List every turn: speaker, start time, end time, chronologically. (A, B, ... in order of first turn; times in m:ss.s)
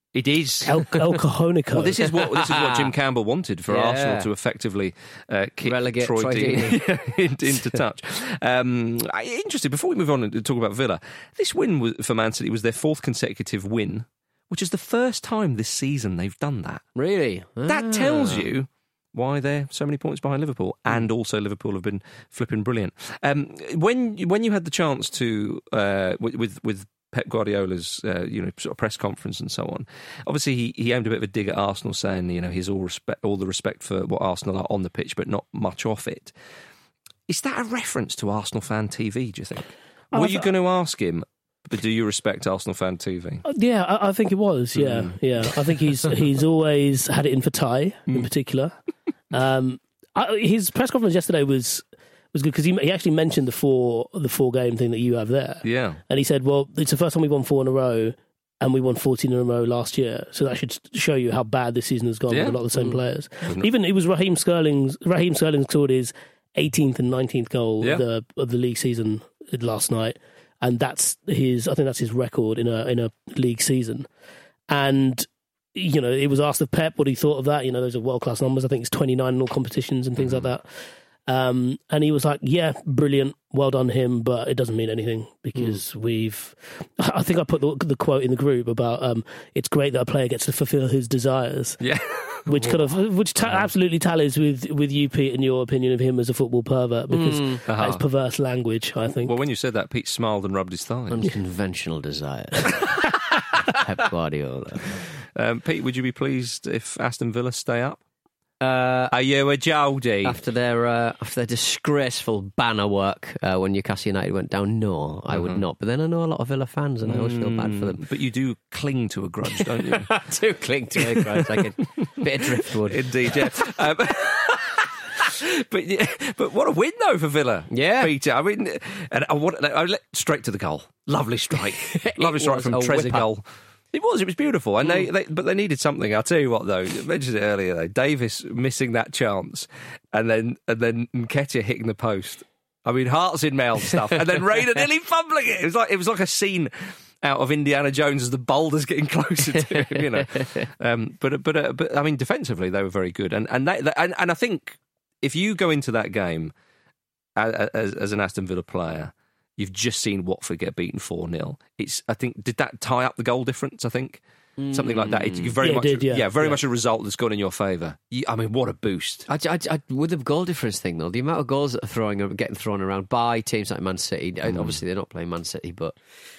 0:00.1-0:01.2 A
0:00.6-0:02.0 B
0:01.7-0:16.8 A
0:02.0-0:02.9 C
0:03.7-0:04.3 C
0:05.6-0:06.8 C
0:17.0-0:18.4 C
0:17.6-0:36.3 A
0:37.3-0:43.4 A
0:40.1-0:40.5 B
0:43.4-0:48.7 B
0:44.7-0:45.1 A
0:49.3-1:14.1 B
0:55.6-0:56.0 A
1:02.3-1:03.7 A
1:14.7-1:20.6 B
1:20.2-1:20.5 A
1:21.3-1:31.8 B
1:31.8-1:32.9 A
1:32.4-1:39.3 B
1:33.4-1:33.7 A
1:37.1-1:37.6 C
1:37.7-1:38.0 A
1:39.2-1:41.3 A
1:41.1-1:43.0 C
1:43.7-1:45.0 C
1:45.4-1:48.0 A
1:48.6-1:49.1 C
1:49.1-1:50.4 A
1:50.2-1:58.0 C
1:55.3-1:55.6 A
1:57.0-2:00.1 A
1:59.6-2:03.5 C
2:01.0-2:36.5 A
2:07.7-2:08.1 C
2:11.8-2:13.3 C
2:37.4-2:44.2 A
2:44.6-2:45.6 C
2:44.7-2:49.3 A
2:45.6-2:46.3 B
2:49.3-2:56.0 C
2:54.4-2:54.8 A